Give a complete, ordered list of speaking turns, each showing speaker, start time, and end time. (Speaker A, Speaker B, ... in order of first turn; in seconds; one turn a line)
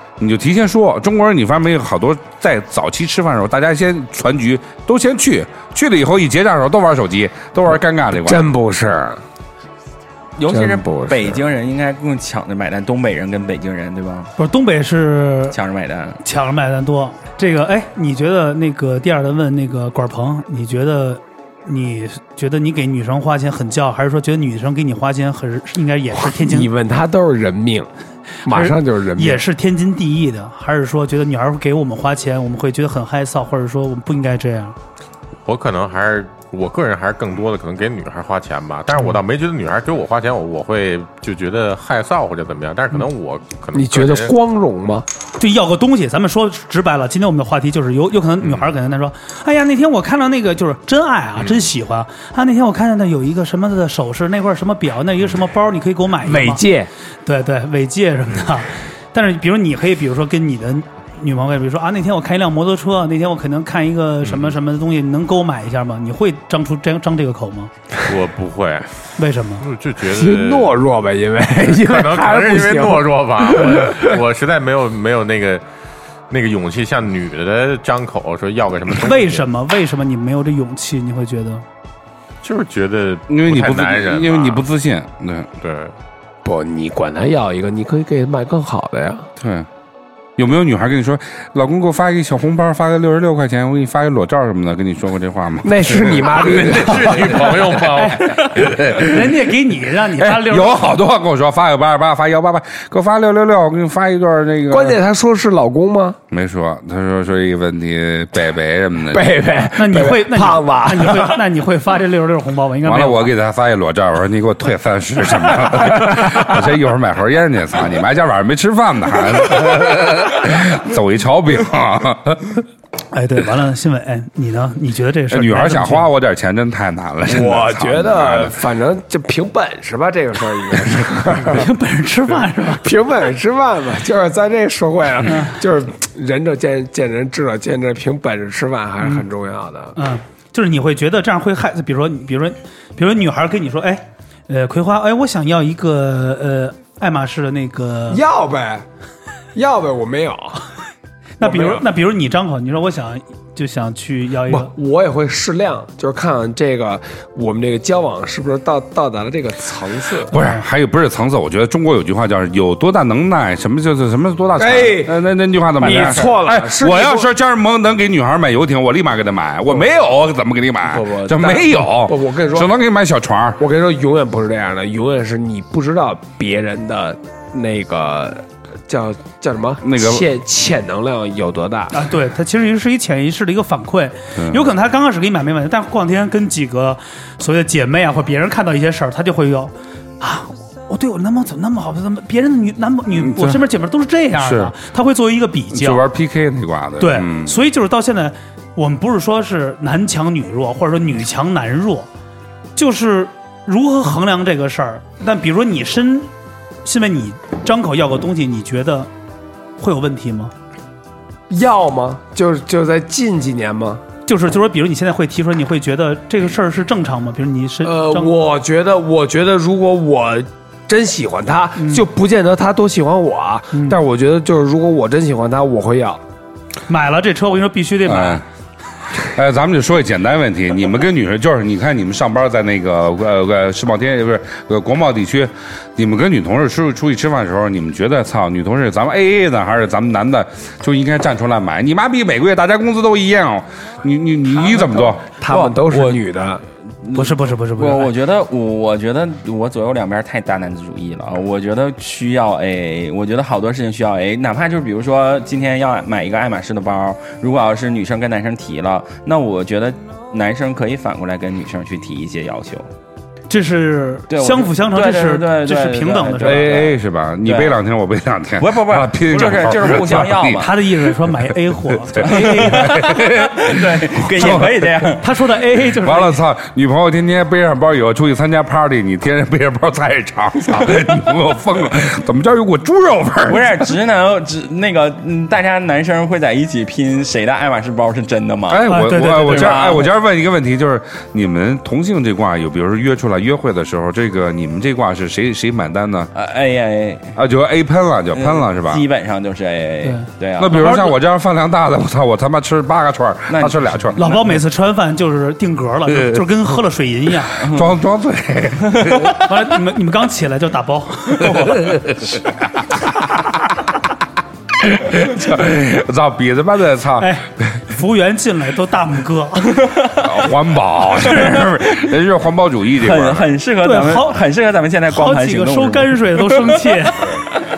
Speaker A: 0.2-8.4
Speaker B: 8.1-9.2
Speaker C: 10.4-14.3
Speaker B: 10.5-11.4
Speaker D: 14.4-15.6
Speaker C: 15.5-16.2
Speaker D: 16.2-26.7
Speaker B: 26.2-27.9
Speaker B: 28.4-29.4
Speaker D: 28.5-34.8
Speaker E: 35.5-44.3
Speaker B: 43.7-45.1
Speaker D: 45.4-56.6
Speaker E: 51.4-51.7
Speaker B: 56.2-56.9
Speaker D: 57.2-67.7
Speaker E: 64.3-64.5
Speaker E: 68.0-68.9
Speaker D: 69.2-69.7
Speaker E: 69.6-70.8
Speaker B: 70.0-74.2
Speaker E: 71.7-75.6
Speaker E: 76.3-79.5
Speaker D: 79.0-81.7
Speaker E: 82.4-84.7
Speaker A: 83.3-85.5
Speaker E: 85.6-85.9
Speaker B: 86.4-89.3
Speaker A: 89.4-89.7
Speaker A: 90.4-97.6
Speaker B: 95.6-97.6
Speaker E: 96.5-98.7
Speaker D: 97.9-100.9
Speaker A: 98.4-99.4
Speaker A: 100.2-105.0
Speaker B: 104.7-106.2
Speaker A: 106.3-109.3
Speaker B: 109.1-111.4
Speaker D: 109.8-113.3
Speaker A: 112.8-122.6
Speaker B: 115.7-116.7
Speaker D: 123.1-126.1
Speaker A: 125.3-128.6
Speaker B: 127.3-131.7
Speaker D: 131.5-132.9
Speaker B: 132.8-140.0
Speaker D: 135.3-135.6
Speaker D: 140.0-148.2
Speaker B: 148.1-148.9
Speaker B: 149.6-150.7
Speaker D: 151.4-154.7
Speaker B: 151.4-151.9
Speaker B: 154.5-160.3
Speaker A: 160.3-173.6
Speaker D: 160.3-160.6
Speaker B: 164.6-165.2
Speaker B: 165.8-167.3
Speaker C: 165.8-166.2
Speaker B: 170.9-172.7
Speaker B: 173.6-182.1
Speaker A: 179.8-180.2
Speaker D: 181.9-196.0
Speaker A: 184.4-184.7
Speaker A: 193.2-193.6
Speaker A: 194.4-194.7
Speaker A: 195.7-197.5
Speaker D: 197.0-202.1
Speaker D: 202.8-206.3
Speaker D: 206.8-209.1
Speaker D: 209.8-210.5
Speaker B: 211.5-214.0
Speaker D: 214.3-218.3
Speaker B: 217.8-226.2
Speaker D: 221.8-222.1
Speaker D: 223.7-224.0
Speaker D: 226.9-228.4
Speaker A: 228.1-228.4
Speaker A: 229.2-246.2
Speaker B: 244.6-246.6
Speaker D: 247.1-248.1
Speaker C: 247.8-262.9
Speaker D: 263.5-266.7
Speaker C: 264.3-267.8
Speaker A: 266.4-270.7
Speaker C: 268.6-270.8
Speaker D: 270.6-273.1
Speaker A: 272.0-275.1
Speaker C: 272.2-275.2
Speaker D: 275.2-276.4
Speaker A: 275.9-283.9
Speaker C: 283.5-290.1
Speaker A: 288.7-296.3
Speaker D: 288.9-290.0
Speaker C: 296.3-297.4
Speaker A: 297.4-299.0
Speaker C: 298.3-301.0
Speaker D: 300.0-301.1
Speaker A: 300.6-304.2
Speaker C: 303.5-304.4
Speaker D: 304.2-307.6
Speaker C: 307.6-308.0
Speaker A: 307.6-309.5
Speaker C: 308.9-309.4
Speaker D: 309.4-311.8
Speaker A: 311.5-312.4
Speaker A: 314.8-317.4
Speaker D: 317.2-319.9
Speaker C: 319.7-320.5
Speaker A: 320.2-323.5
Speaker C: 321.1-322.1
Speaker C: 323.0-327.1
Speaker D: 323.8-324.4
Speaker D: 325.1-327.4